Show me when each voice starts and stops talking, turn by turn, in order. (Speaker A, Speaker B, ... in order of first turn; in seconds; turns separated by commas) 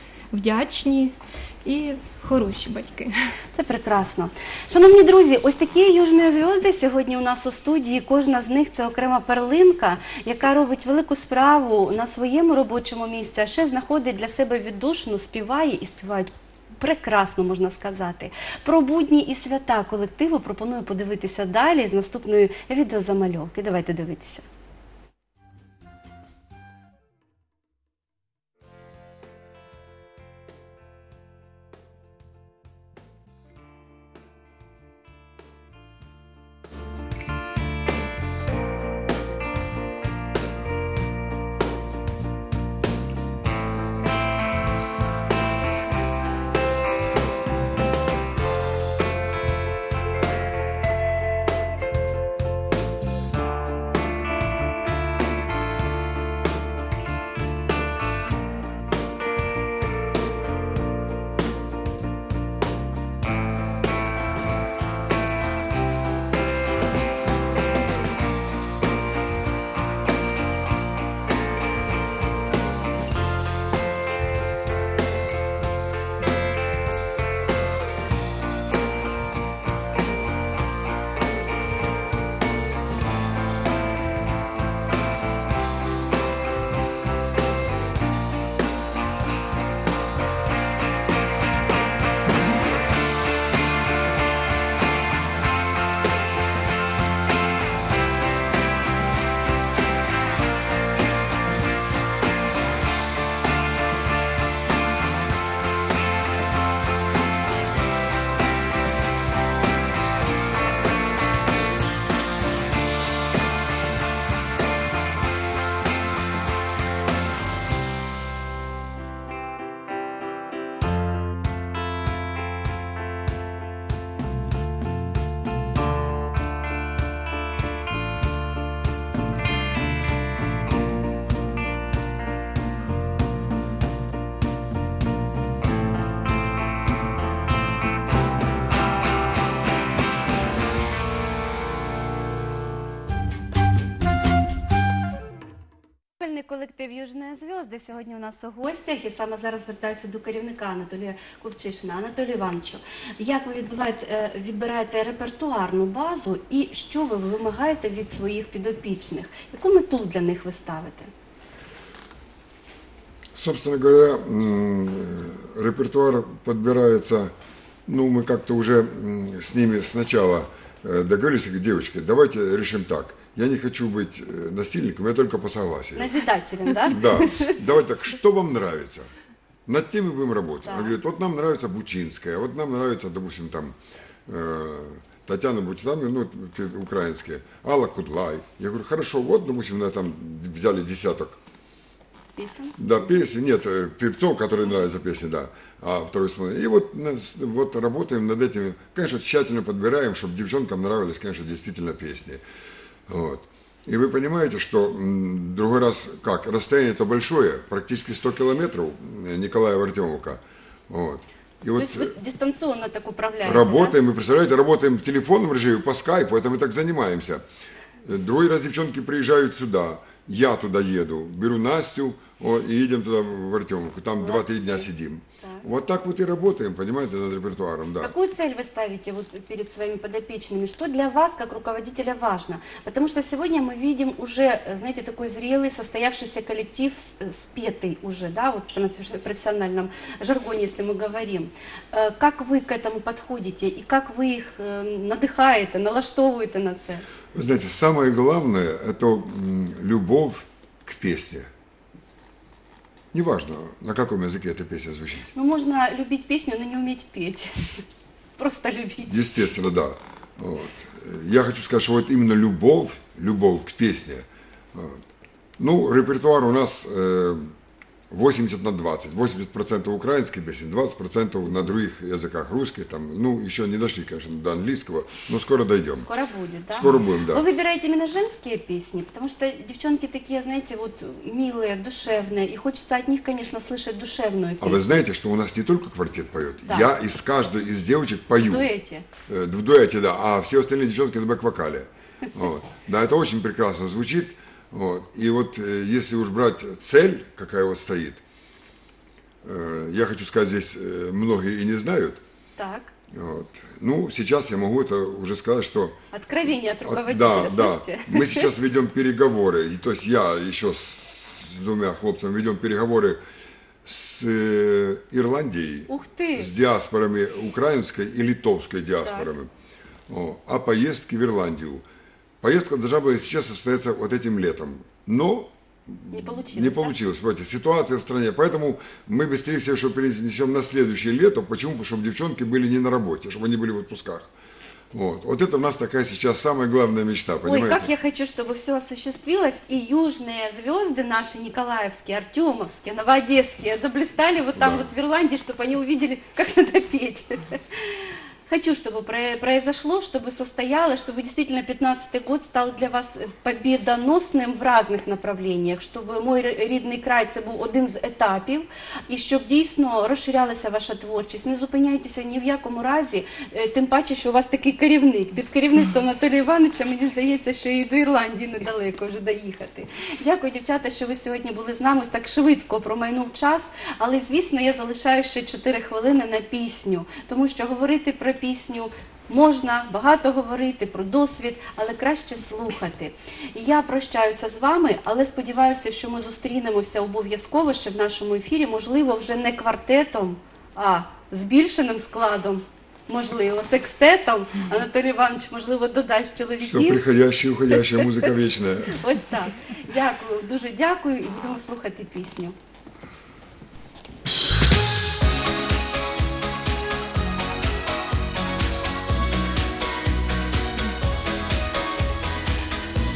Speaker A: 0.3-3.3, Speaker B: 3.5-24.4, Speaker B: 146.2-161.1, Speaker C: 163.3-167.3, Speaker C: 167.9-176.2, Speaker B: 176.0-177.6, Speaker C: 176.9-179.1, Speaker C: 179.7-191.4, Speaker B: 180.7-181.0, Speaker B: 192.4-193.1, Speaker C: 192.8-202.4, Speaker C: 203.1-212.1, Speaker B: 211.8-214.0, Speaker C: 213.4-217.4, Speaker C: 218.0-228.1, Speaker B: 224.2-224.9, Speaker B: 228.0-247.0, Speaker C: 247.3-251.5, Speaker C: 253.1-255.3, Speaker B: 255.3-257.8, Speaker B: 258.4-259.3, Speaker C: 259.1-265.0, Speaker C: 265.6-267.5, Speaker C: 268.1-276.1, Speaker B: 276.0-285.0, Speaker C: 276.7-277.4, Speaker C: 284.6-288.7, Speaker B: 288.4-289.1, Speaker C: 289.3-298.2, Speaker C: 299.4-302.2, Speaker B: 302.6-302.9, Speaker C: 303.1-306.0, Speaker B: 306.1-308.5, Speaker C: 306.8-313.2, Speaker C: 313.8-319.5, Speaker B: 315.9-316.5, Speaker B: 319.0-319.3, Speaker C: 320.1-321.8, Speaker C: 322.4-334.3, Speaker B: 326.1-327.0, Speaker C: 334.9-337.9, Speaker B: 337.4-397.0, Speaker C: 344.6-344.9, Speaker C: 396.6-399.0, Speaker B: 397.7-398.1, Speaker B: 398.9-402.6